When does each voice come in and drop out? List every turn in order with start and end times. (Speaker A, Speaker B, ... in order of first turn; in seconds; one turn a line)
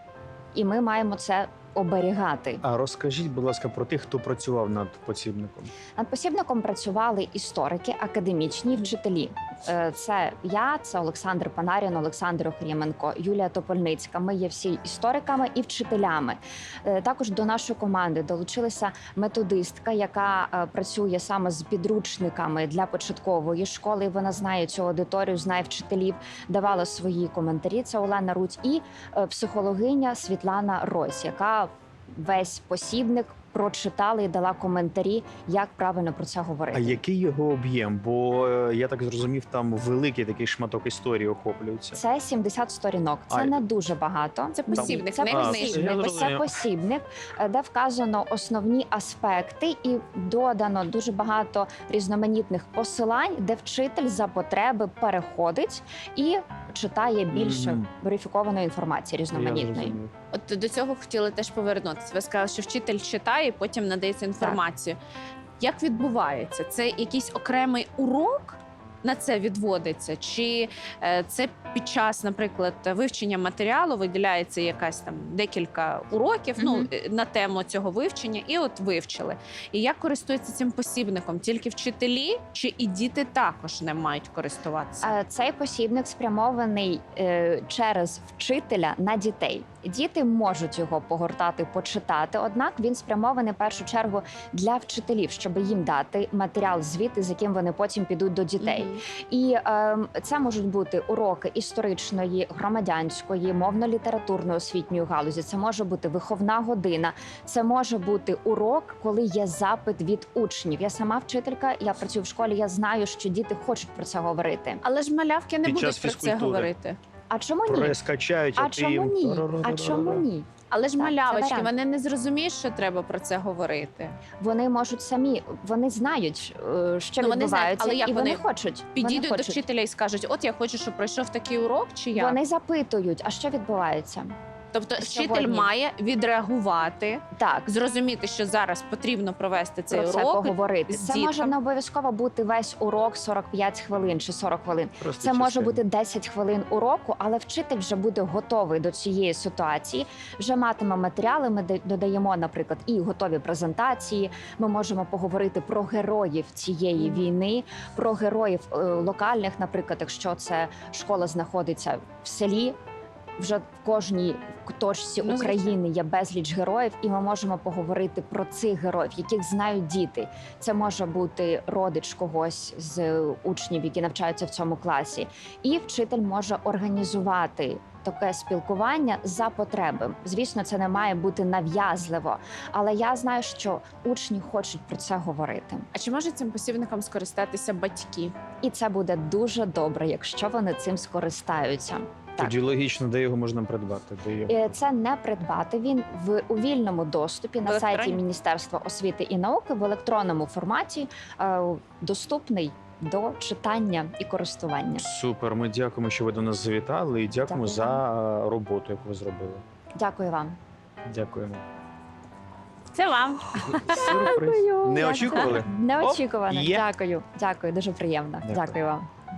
Speaker A: 0.5-2.6
Speaker B: 2.6-5.7
Speaker A: 6.0-37.0
Speaker B: 36.7-42.0
Speaker A: 41.9-60.0
Speaker B: 43.3-43.6
Speaker C: 44.5-46.1
Speaker B: 44.7-46.5
Speaker B: 57.3-57.8
Speaker B: 59.3-60.1
Speaker C: 60.3-65.0
Speaker C: 65.6-85.1
Speaker A: 76.6-76.9
Speaker A: 85.0-114.8
Speaker C: 98.6-99.0
Speaker C: 114.8-117.0
Speaker B: 115.6-116.7
Speaker A: 117.3-118.0
Speaker B: 117.7-120.2
Speaker A: 118.5-121.7
Speaker C: 120.7-124.2
Speaker A: 124.4-129.6
Speaker C: 127.2-128.4
Speaker C: 128.9-132.4
Speaker A: 132.1-134.3
Speaker C: 134.7-141.5
Speaker A: 135.0-135.7
Speaker A: 137.3-137.7
Speaker A: 139.9-162.8
Speaker B: 145.0-145.8
Speaker A: 163.4-185.9
Speaker C: 165.2-165.8
Speaker C: 185.9-188.3
Speaker A: 188.6-192.5
Speaker B: 192.4-194.7
Speaker A: 194.5-205.0
Speaker C: 197.6-198.2
Speaker B: 205.0-209.6
Speaker A: 207.5-208.0
Speaker A: 210.0-210.6
Speaker B: 211.1-211.6
Speaker C: 212.9-214.1
Speaker B: 213.6-216.8
Speaker A: 214.0-219.1
Speaker B: 218.4-218.8